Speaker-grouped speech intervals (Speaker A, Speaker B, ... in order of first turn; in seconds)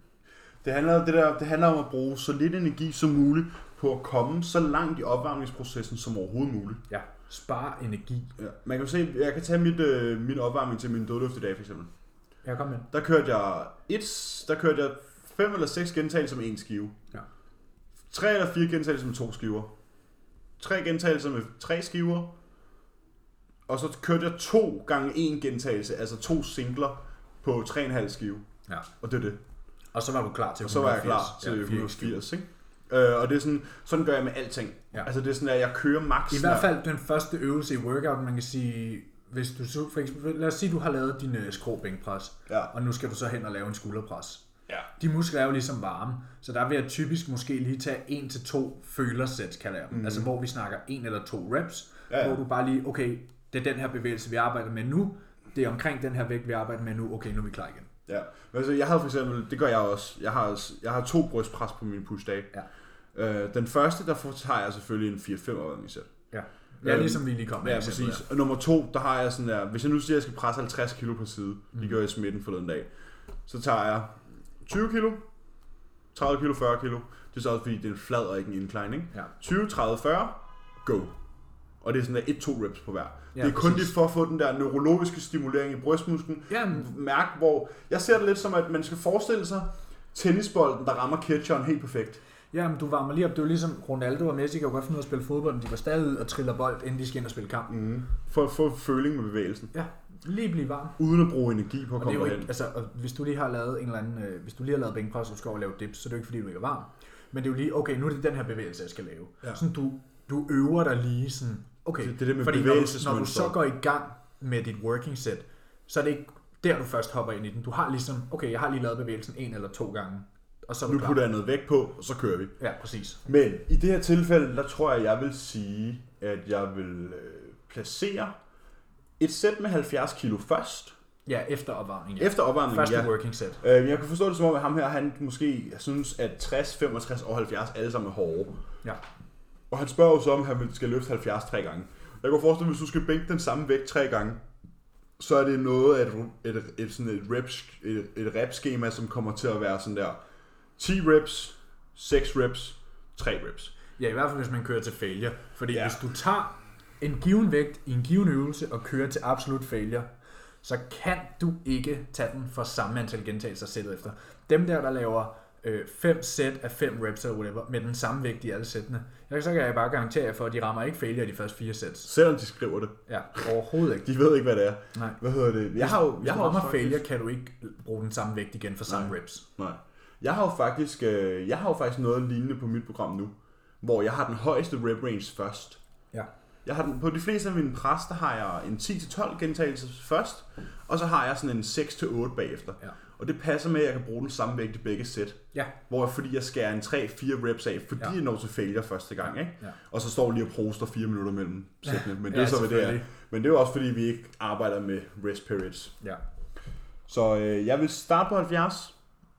Speaker A: 0.6-6.8, 8.4-11.9, 12.9-17.0, 18.1-19.7, 20.6-22.3, 23.7-28.5, 29.0-29.4, 30.6-36.7, 49.9-50.3, 52.1-52.4, 58.1-62.5, 63.1-66.1, 66.8-72.9, 73.5-75.2, 76.1-81.1, 81.8-92.2, 97.7-99.7, 101.0-102.5, 112.0-113.6, 120.9-122.5, 123.2-128.3, 129.2-130.9, 132.2-138.6, 139.7-144.4, 145.2-150.2, 150.8-153.7, 155.7-156.0, 172.0-177.0, 178.9-185.8, 186.6-205.9, 207.1-208.9
Speaker B: 6.9-8.3, 12.4-12.9, 29.9-32.2, 36.3-44.4, 45.0-57.9, 66.3-68.2, 83.3-83.9, 86.5-86.9, 92.5-97.7, 99.7-101.0, 102.0-121.2, 122.6-123.2, 131.2-133.6, 154.0-160.1, 160.6-172.1, 173.1-174.1, 174.9-175.2, 175.7-179.4, 201.9-203.1